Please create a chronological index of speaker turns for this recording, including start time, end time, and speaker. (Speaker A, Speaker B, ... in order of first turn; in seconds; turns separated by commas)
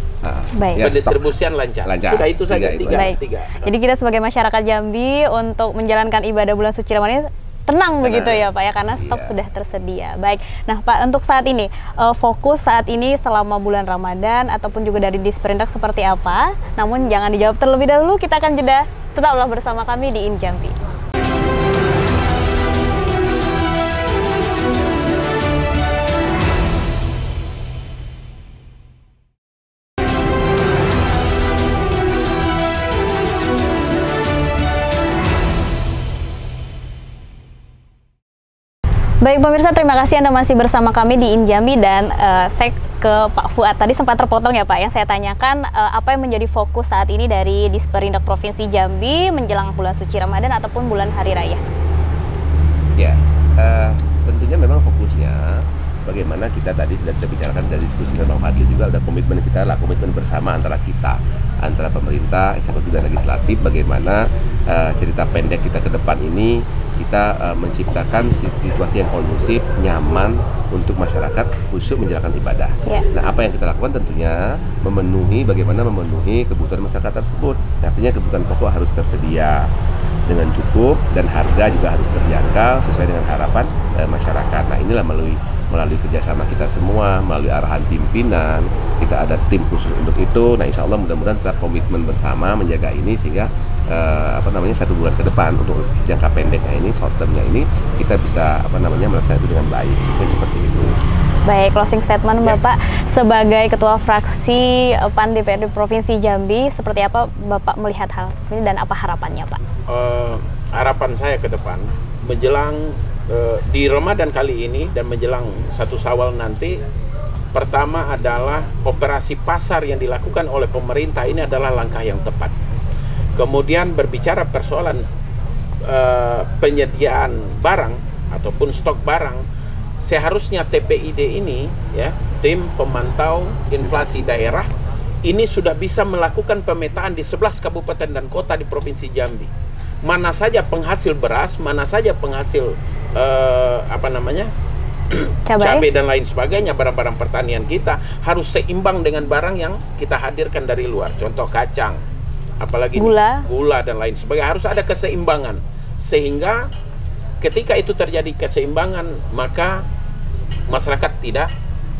Speaker A: 0.2-1.3, Speaker B: 0.5-0.8, Speaker C: 0.8-3.7, Speaker A: 1.8-3.1, Speaker B: 2.9-20.8, Speaker A: 8.0-9.3, Speaker B: 39.2-51.6, Speaker A: 53.0-79.7, Speaker A: 80.3-101.0, Speaker B: 101.5-109.6, Speaker C: 109.9-116.8, Speaker C: 117.5-122.5, Speaker C: 123.4-125.0, Speaker C: 125.8-129.4, Speaker C: 130.0-134.7, Speaker C: 135.2-139.5, Speaker C: 140.0-144.5, Speaker C: 145.1-152.0, Speaker B: 145.4-145.8, Speaker C: 152.6-156.7, Speaker B: 152.9-153.4, Speaker C: 157.4-159.8, Speaker C: 160.7-161.5